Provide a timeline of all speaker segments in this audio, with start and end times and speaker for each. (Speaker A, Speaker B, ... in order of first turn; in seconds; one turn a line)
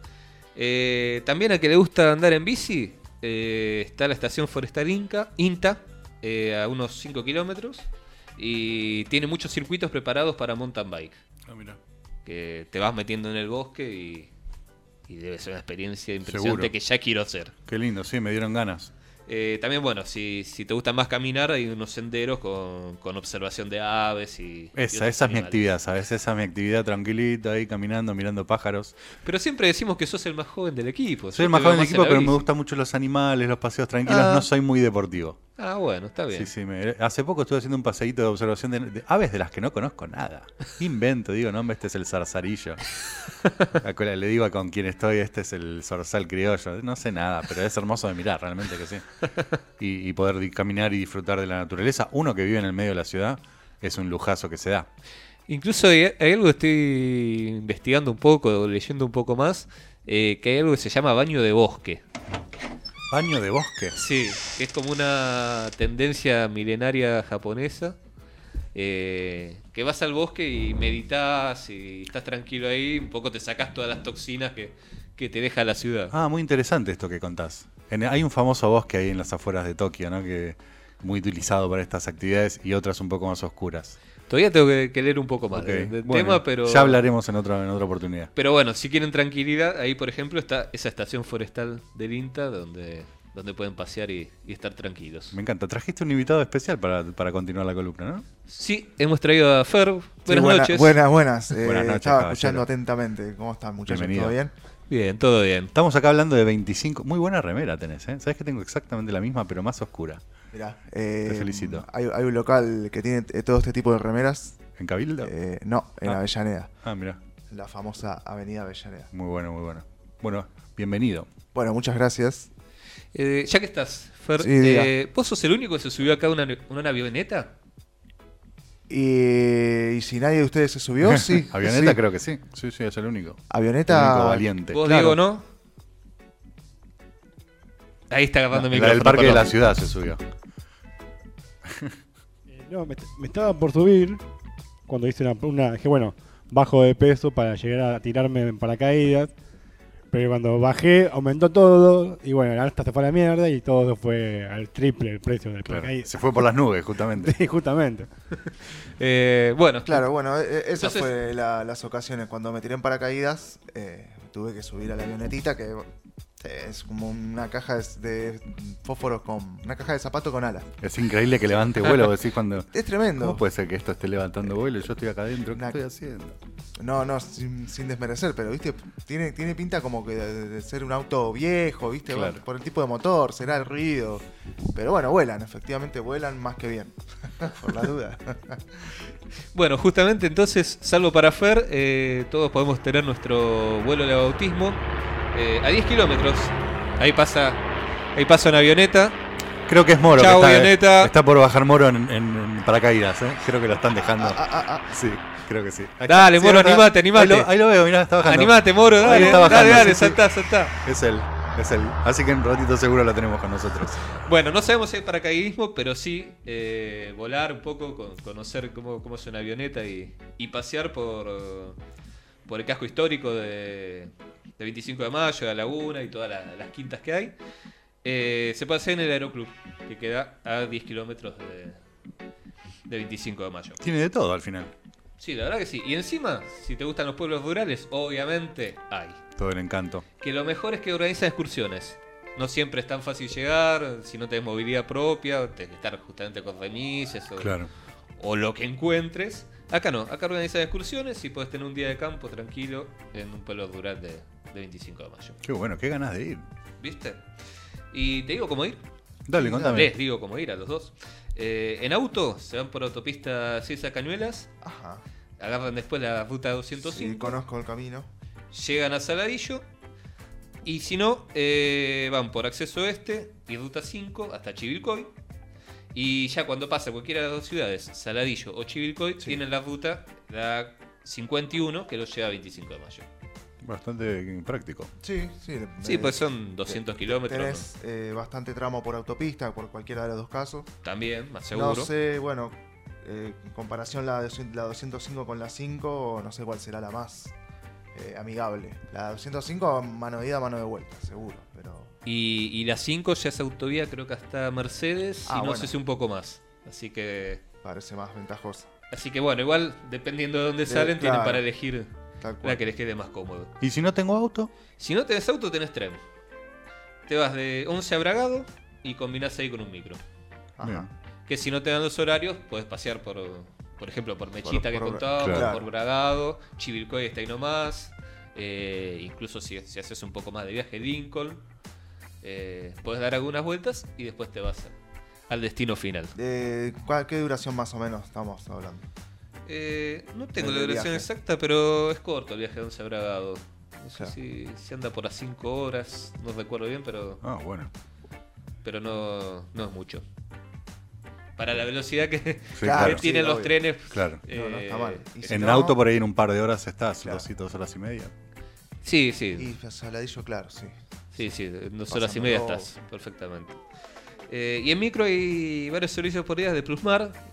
Speaker A: 0.6-11.2
Speaker B: 11.5-11.8
Speaker A: 12.3-14.3
Speaker A: 15.1-17.5
Speaker B: 16.2-16.7
Speaker B: 17.7-18.9
Speaker A: 19.3-25.7
Speaker B: 24.8-28.9
Speaker A: 29.2-32.5
Speaker B: 31.3-35.4
Speaker A: 34.1-34.5
Speaker A: 35.6-36.5
Speaker B: 36.3-42.8
Speaker B: 43.8-49.1
Speaker B: 49.8-54.9
Speaker A: 55.5-62.0
Speaker B: 63.1-64.0
Speaker A: 64.0-68.0
Speaker A: 68.8-76.1
Speaker B: 76.1-84.0
Speaker A: 84.3-87.0
Speaker B: 85.5-88.3
Speaker A: 88.4-95.4
Speaker B: 95.3-98.2
Speaker A: 98.5-101.0
Speaker C: 100.3-104.5
Speaker B: 101.6-102.7
Speaker B: 103.9-104.3
Speaker A: 104.9-105.7
Speaker B: 105.7-110.2
Speaker C: 110.5-114.6
Speaker B: 111.3-111.9
Speaker B: 114.8-115.3
Speaker C: 115.2-116.7
Speaker B: 116.8-117.2
Speaker C: 117.5-119.1
Speaker B: 119.1-121.3
Speaker C: 121.5-122.5
Speaker A: 123.1-127.5
Speaker C: 124.4-124.9
Speaker C: 128.9-132.0
Speaker B: 131.0-134.8
Speaker C: 133.5-135.2
Speaker A: 134.7-135.4
Speaker A: 138.1-139.5
Speaker B: 138.5-140.2
Speaker D: 142.5-144.2
Speaker D: 144.9-149.3
Speaker D: 150.1-156.5
Speaker B: 155.7-157.3
Speaker D: 157.2-158.1
Speaker A: 158.4-160.1
Speaker C: 159.9-170.7
Speaker A: 160.8-161.1
Speaker B: 170.8-176.4
Speaker C: 172.7-173.4
Speaker C: 175.5-175.8
Speaker C: 176.8-188.9
Speaker B: 182.1-182.4
Speaker A: 189.5-194.8
Speaker A: 195.3-197.6
Speaker A: 198.2-199.2
Speaker B: 199.7-210.2
Speaker A: 200.1-201.1
Speaker C: 204.0-204.9
Speaker A: 206.1-207.5
Speaker A: 208.2-210.7
Speaker C: 209.1-209.9
Speaker B: 210.8-214.2
Speaker A: 214.2-221.8
Speaker A: 222.5-227.3
Speaker A: 228.0-231.8
Speaker A: 232.9-233.8
Speaker B: 233.8-234.7
Speaker A: 235.2-239.2
Speaker B: 239.4-240.1
Speaker A: 240.2-247.6
Speaker B: 247.4-247.7
Speaker A: 248.2-255.4
Speaker B: 255.4-256.4
Speaker A: 256.8-257.2
Speaker A: 257.9-258.8
Speaker B: 259.3-259.9
Speaker C: 259.3-259.9
Speaker A: 259.6-264.5
Speaker C: 264.6-265.0
Speaker A: 265.4-267.4
Speaker C: 266.8-268.1
Speaker A: 268.5-269.6
Speaker A: 270.6-275.1
Speaker A: 275.9-283.1
Speaker B: 283.6-284.9
Speaker C: 285.0-290.7
Speaker A: 285.8-287.7
Speaker A: 290.9-291.9
Speaker C: 291.5-297.4
Speaker C: 297.9-301.9
Speaker A: 302.1-307.4
Speaker C: 305.3-305.8
Speaker C: 307.6-308.7
Speaker A: 308.9-311.9
Speaker C: 310.7-311.4
Speaker C: 312.2-312.6
Speaker A: 312.4-313.5
Speaker B: 313.6-314.5
Speaker A: 314.8-316.0
Speaker A: 317.1-320.0
Speaker C: 320.6-320.9
Speaker B: 320.6-320.9
Speaker A: 321.3-331.4
Speaker C: 324.4-325.7
Speaker B: 325.2-325.5
Speaker A: 332.2-334.7
Speaker A: 335.3-336.1
Speaker C: 336.1-338.9
Speaker A: 339.5-347.2
Speaker C: 340.4-341.1
Speaker B: 347.2-347.7
Speaker A: 348.6-350.0
Speaker A: 351.4-355.3
Speaker B: 352.6-353.1
Speaker C: 352.6-353.6
Speaker B: 353.9-354.2
Speaker C: 354.3-355.8
Speaker B: 355.3-358.1
Speaker A: 358.8-359.5
Speaker C: 359.4-360.8
Speaker A: 361.1-363.6
Speaker C: 361.9-362.7
Speaker A: 364.3-367.2